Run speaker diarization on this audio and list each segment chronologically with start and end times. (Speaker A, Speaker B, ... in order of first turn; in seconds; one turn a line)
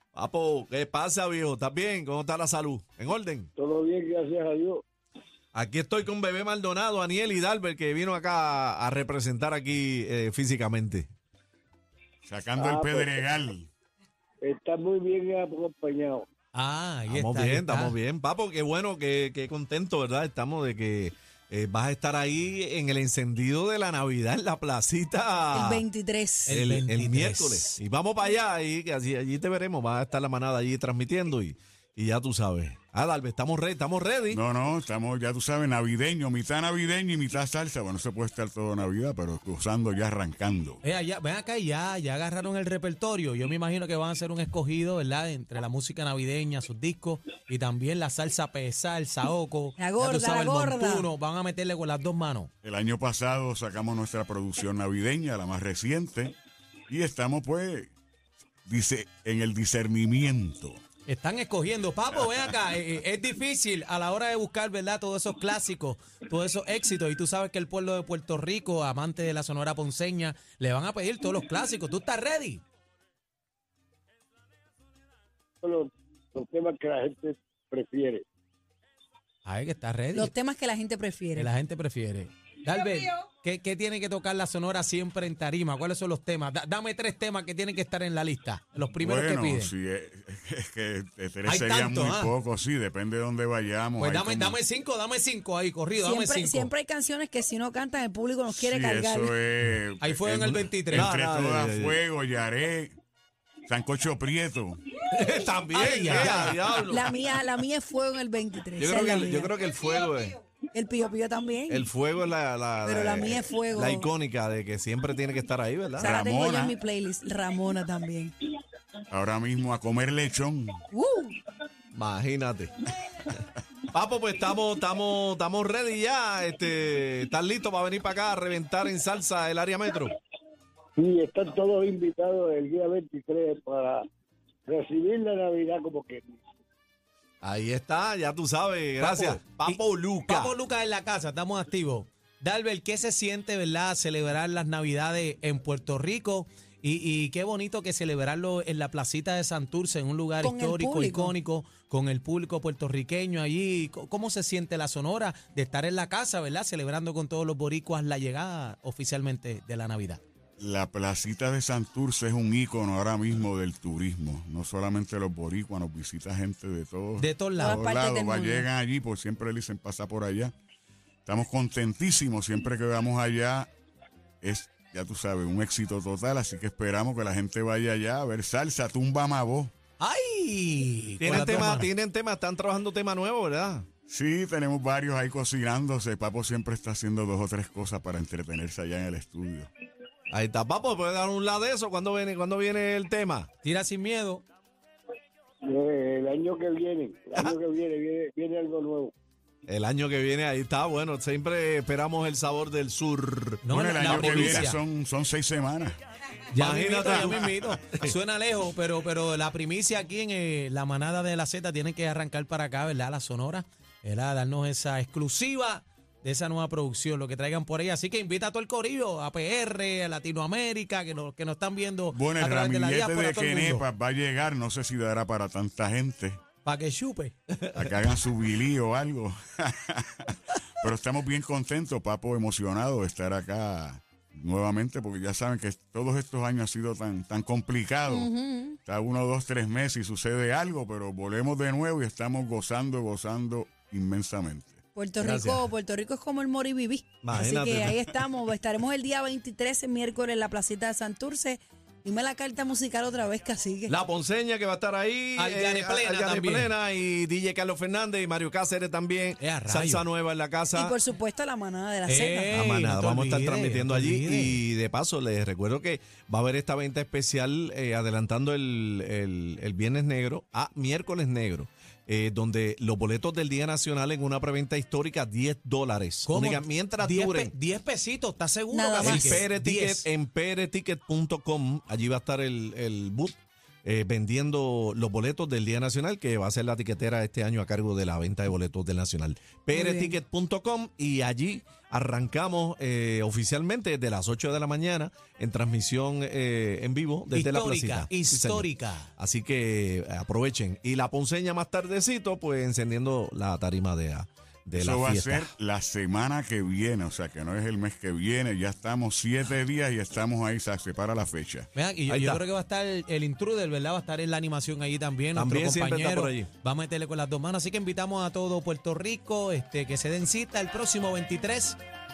Speaker A: 0.1-3.5
Speaker B: 3.5-4.8
Speaker A: 5.5-11.1
Speaker C: 12.2-13.7
Speaker B: 12.6-13.2
Speaker B: 14.4-16.3
Speaker D: 16.5-17.9
Speaker A: 17.1-25.8
Speaker E: 25.5-26.6
Speaker D: 26.4-27.8
Speaker A: 26.5-34.4
Speaker C: 34.3-40.8
Speaker D: 40.8-52.5
Speaker E: 49.8-51.1
Speaker C: 52.6-56.3
Speaker C: 56.9-57.9
Speaker C: 58.6-60.8
Speaker D: 61.1-72.6
Speaker B: 75.6-78.2
Speaker D: 79.4-80.3
Speaker E: 80.1-81.5
Speaker D: 81.3-89.7
Speaker C: 89.0-94.6
Speaker D: 91.5-92.3
Speaker D: 94.0-96.7
Speaker E: 96.0-99.3
Speaker C: 98.5-102.9
Speaker D: 100.0-101.1
Speaker A: 100.9-102.0
Speaker C: 103.7-104.8
Speaker A: 105.1-107.1
Speaker D: 105.7-106.8
Speaker E: 106.9-109.5
Speaker A: 108.8-110.4
Speaker E: 110.7-111.9
Speaker A: 111.7-116.1
Speaker E: 112.8-114.1
Speaker E: 116.0-118.3
Speaker C: 116.0-116.7
Speaker C: 119.1-120.8
Speaker E: 120.9-121.4
Speaker A: 121.9-122.7
Speaker A: 123.9-130.1
Speaker B: 130.9-134.0
Speaker B: 134.7-136.2
Speaker A: 137.4-140.5
Speaker D: 139.0-160.2
Speaker E: 150.4-151.3
Speaker C: 160.6-170.5
Speaker D: 167.2-167.8
Speaker E: 167.6-168.7
Speaker C: 171.2-173.7
Speaker C: 174.4-179.7
Speaker D: 180.0-181.9
Speaker A: 181.2-183.9
Speaker C: 184.1-189.7
Speaker A: 190.3-193.5
Speaker D: 193.6-194.4
Speaker B: 195.6-199.1
Speaker A: 199.7-204.4
Speaker D: 203.6-204.8
Speaker C: 203.7-206.0
Speaker A: 206.5-208.1
Speaker D: 206.5-223.8
Speaker C: 222.1-226.4
Speaker D: 226.6-227.3
Speaker A: 227.6-227.9
Speaker C: 227.7-238.3
Speaker E: 238.1-238.8
Speaker C: 238.8-244.8
Speaker E: 244.9-253.9
Speaker A: 247.2-248.1
Speaker A: 253.9-261.0
Speaker D: 255.4-256.7
Speaker D: 259.4-260.0
Speaker E: 260.7-262.6
Speaker D: 262.1-264.6
Speaker A: 262.5-277.5
Speaker D: 276.2-280.1
Speaker E: 278.7-279.4
Speaker A: 279.0-305.5
Speaker E: 289.7-290.1
Speaker D: 297.3-299.1
Speaker C: 304.8-311.7
Speaker D: 311.7-321.8
Speaker A: 312.1-312.4
Speaker A: 315.3-316.5